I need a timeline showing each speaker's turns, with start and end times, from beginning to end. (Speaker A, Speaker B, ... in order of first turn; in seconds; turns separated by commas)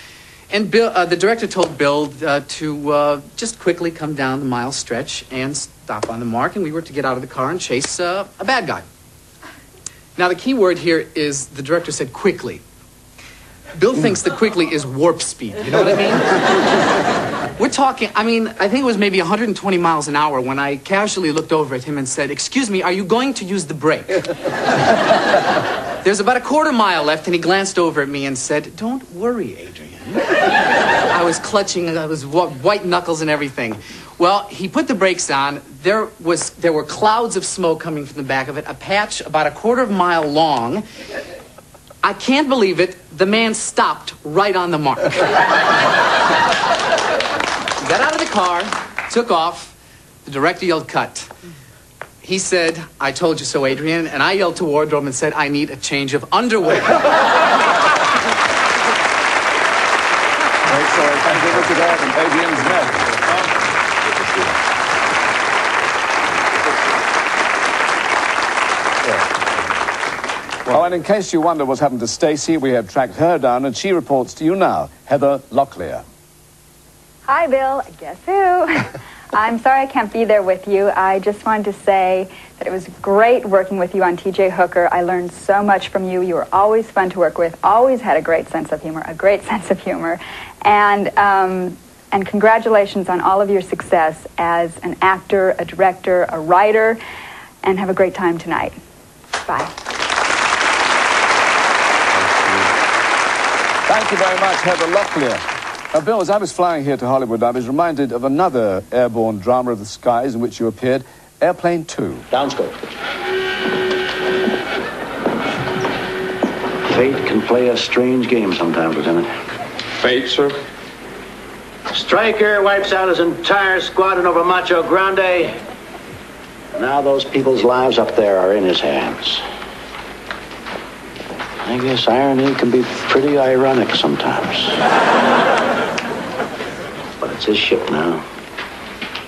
Speaker A: 0.5-8.8, Speaker A: 10.2-12.6, Speaker A: 13.7-16.4, Speaker A: 17.6-24.2, Speaker A: 26.0-30.4, Speaker A: 31.0-40.8, Speaker A: 42.0-45.2, Speaker A: 47.8-51.3, Speaker A: 52.2-57.1, Speaker B: 60.7-63.1, Speaker C: 63.1-63.5, Speaker C: 64.0-64.5, Speaker C: 69.0-69.4, Speaker C: 70.7-70.9, Speaker B: 70.7-76.0, Speaker D: 77.3-97.0, Speaker D: 97.6-98.7, Speaker D: 99.5-99.7, Speaker C: 102.1-102.7, Speaker B: 103.9-112.2, Speaker E: 112.3-112.7, Speaker E: 116.8-119.3, Speaker C: 120.0-120.5, Speaker E: 122.0-125.5, Speaker E: 126.7-129.4, Speaker E: 131.6-134.8, Speaker E: 137.2-138.2